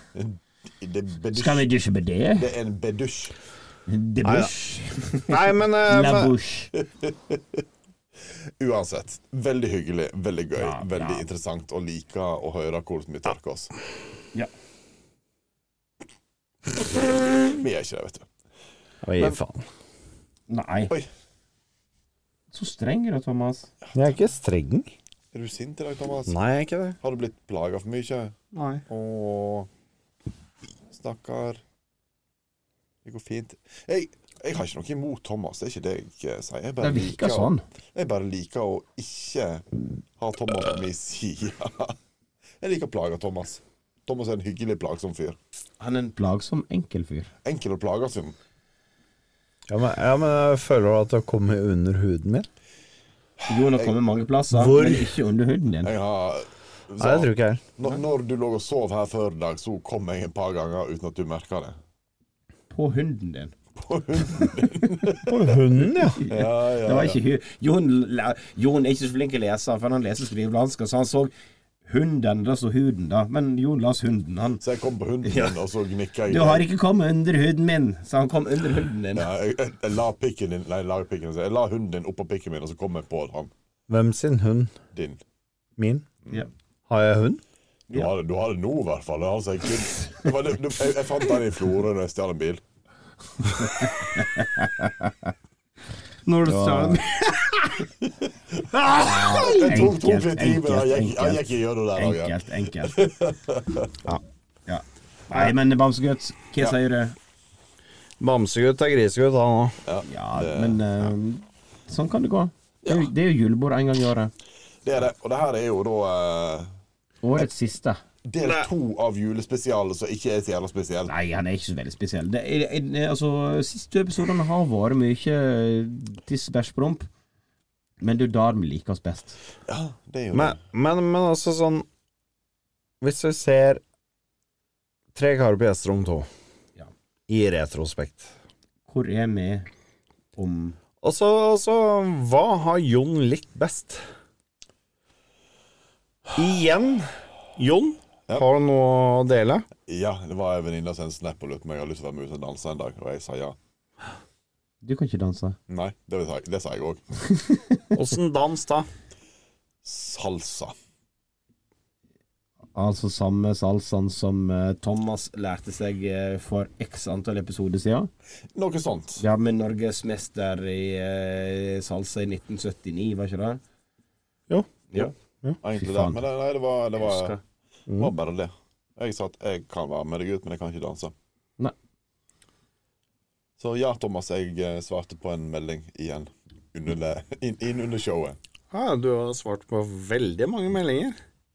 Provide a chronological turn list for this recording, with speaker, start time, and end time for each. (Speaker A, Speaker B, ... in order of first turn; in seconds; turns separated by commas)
Speaker A: 0.1-1.7, Speaker B: 1.3-2.5, Speaker A: 2.4-3.3, Speaker B: 3.9-6.7, Speaker C: 4.2-4.5, Speaker C: 5.3-6.3, Speaker A: 6.8-7.6, Speaker A: 8.3-13.7, Speaker B: 10.6-11.2, Speaker A: 16.7-18.3, Speaker C: 19.0-19.6, Speaker B: 20.5-20.9, Speaker B: 22.5-23.7, Speaker A: 23.8-24.2, Speaker C: 23.9-24.9, Speaker A: 25.3-26.4, Speaker C: 26.3-27.0, Speaker A: 27.0-28.3, Speaker C: 28.5-28.8, Speaker A: 28.9-29.7, Speaker A: 30.9-31.6, Speaker A: 33.0-39.7, Speaker B: 36.8-37.6, Speaker A: 40.2-42.0, Speaker A: 42.6-45.4, Speaker B: 45.8-47.3, Speaker A: 47.4-48.3, Speaker C: 49.7-52.5, Speaker A: 53.4-53.9, Speaker B: 53.5-55.9, Speaker C: 54.5-55.1, Speaker A: 55.8-61.8, Speaker C: 57.0-57.6, Speaker B: 62.7-63.5, Speaker A: 63.8-67.2, Speaker B: 64.4-64.8, Speaker C: 65.2-66.2, Speaker B: 66.1-71.3, Speaker B: 71.8-74.6, Speaker A: 74.6-76.6, Speaker B: 75.2-75.6, Speaker B: 76.3-79.3, Speaker A: 79.1-83.5, Speaker C: 83.9-84.7, Speaker A: 84.9-85.2, Speaker C: 85.8-86.1, Speaker C: 86.9-87.4, Speaker A: 87.9-92.6, Speaker B: 93.4-95.3, Speaker B: 96.2-97.8, Speaker C: 96.4-97.1, Speaker A: 98.0-104.0, Speaker C: 98.9-99.9, Speaker B: 98.9-103.0, Speaker B: 104.0-107.2, Speaker C: 108.2-109.8, Speaker A: 109.8-111.1, Speaker B: 110.0-114.3, Speaker A: 114.8-116.7, Speaker B: 117.2-118.0, Speaker A: 118.2-121.1, Speaker C: 118.4-118.7, Speaker B: 121.1-127.1, Speaker B: 128.0-129.4, Speaker A: 129.7-130.6, Speaker C: 130.3-131.8, Speaker C: 133.0-133.8, Speaker C: 135.1-136.3, Speaker C: 137.3-138.3, Speaker B: 138.9-139.7, Speaker B: 140.3-140.8, Speaker C: 141.0-144.0, Speaker C: 146.3-149.7, Speaker A: 149.8-153.6, Speaker B: 154.8-155.6, Speaker A: 155.7-157.0, Speaker B: 157.3-158.0, Speaker C: 157.9-158.9, Speaker A: 159.8-160.7, Speaker B: 162.7-168.1, Speaker A: 168.5-169.2, Speaker B: 169.2-173.6, Speaker C: 174.5-175.6, Speaker A: 175.6-177.4, Speaker B: 175.7-176.2, Speaker B: 177.0-177.4, Speaker C: 177.9-178.1, Speaker A: 178.0-181.1, Speaker A: 183.6-188.4, Speaker C: 188.7-191.2